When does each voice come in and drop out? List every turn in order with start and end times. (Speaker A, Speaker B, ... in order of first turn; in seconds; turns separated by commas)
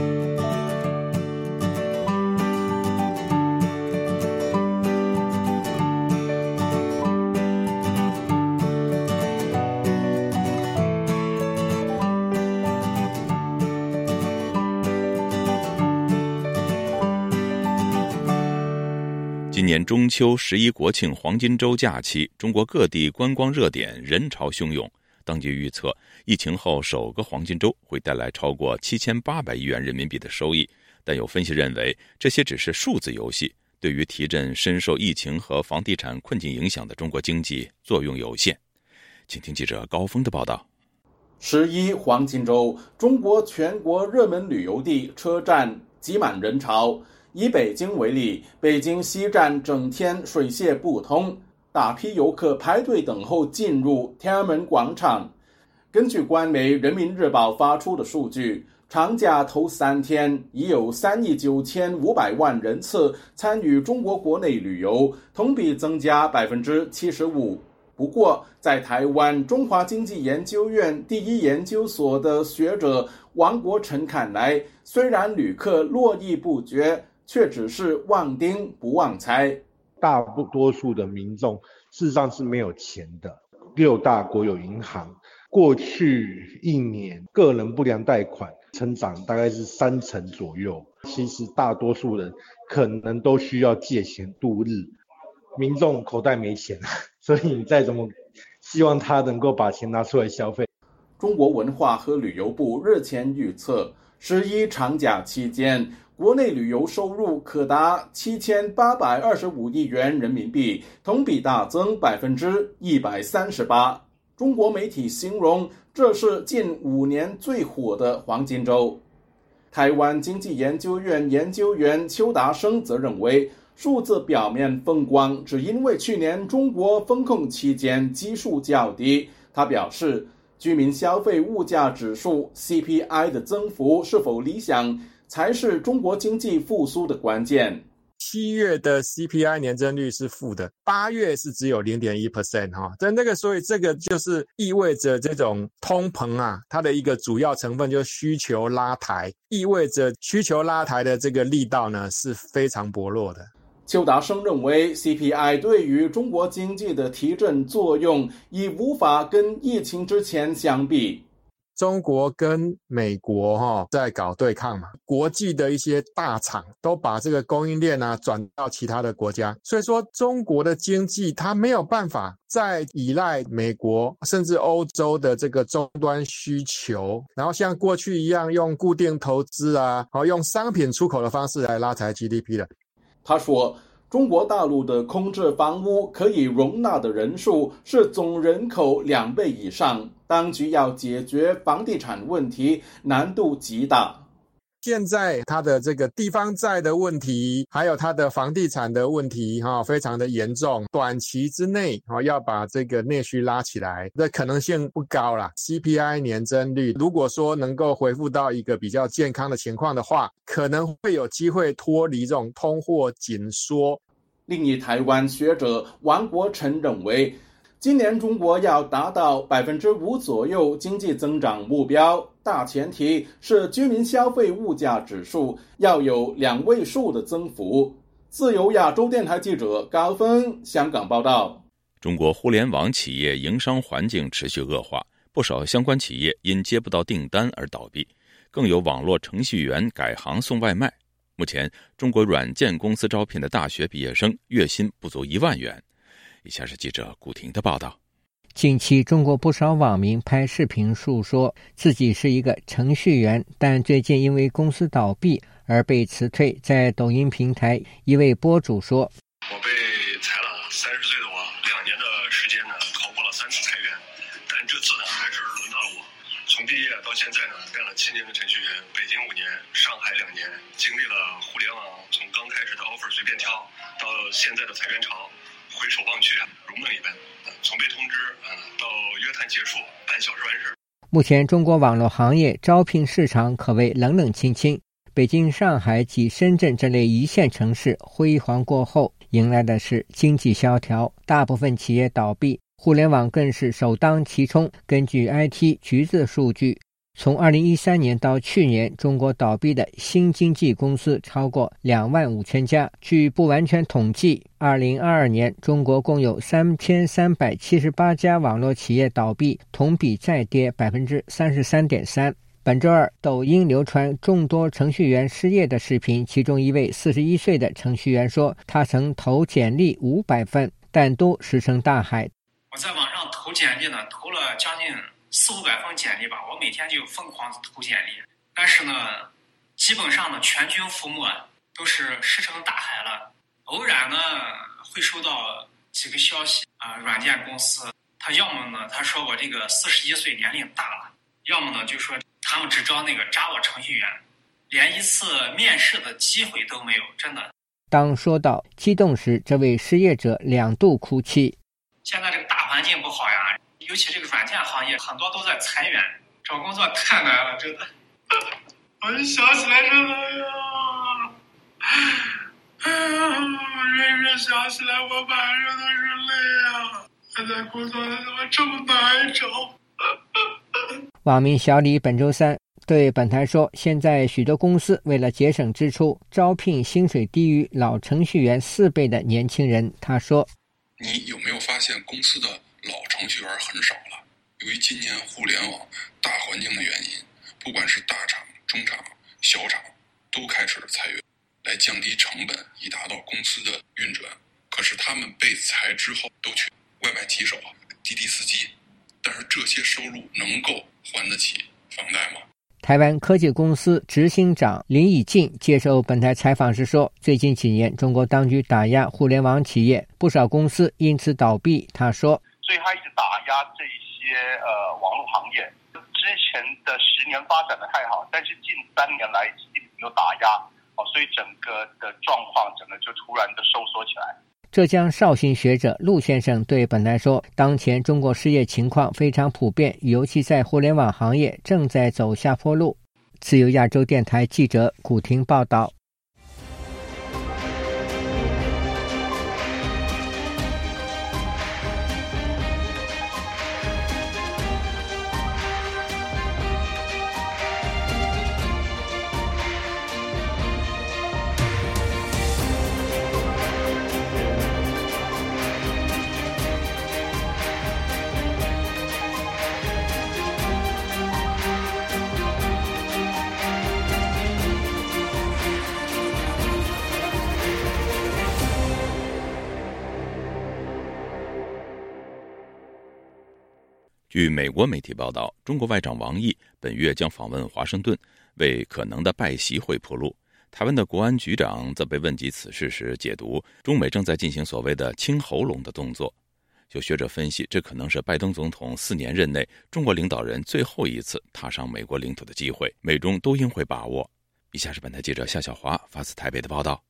Speaker A: 19.5-38.6, Speaker A: 39.3-40.6, Speaker B: 41.4-55.3, Speaker B: 55.9-79.6, Speaker C: 80.0-94.9, Speaker C: 95.6-100.7, Speaker B: 101.2-119.0, Speaker B: 119.7-137.8, Speaker D: 138.2-153.5, Speaker B: 153.9-161.2, Speaker D: 161.8-182.7, Speaker B: 183.2-194.2, Speaker D: 194.8-214.0, Speaker B: 214.5-231.6, Speaker A: 232.0-245.8, Speaker A: 246.4-248.0, Speaker E: 248.6-259.1, Speaker F: 259.5-280.8, Speaker E: 281.1-322.3, Speaker G: 322.7-347.5, Speaker E: 347.9-351.6, Speaker G: 352.1-357.9, Speaker G: 359.0-360.2, Speaker G: 364.4-366.1, Speaker E: 371.2-380.5, Speaker H: 381.0-402.4, Speaker E: 402.8-412.4, Speaker I: 412.6-424.4, Speaker E: 424.7-435.9, Speaker A: 474.3-486.3, Speaker A: 486.9-497.0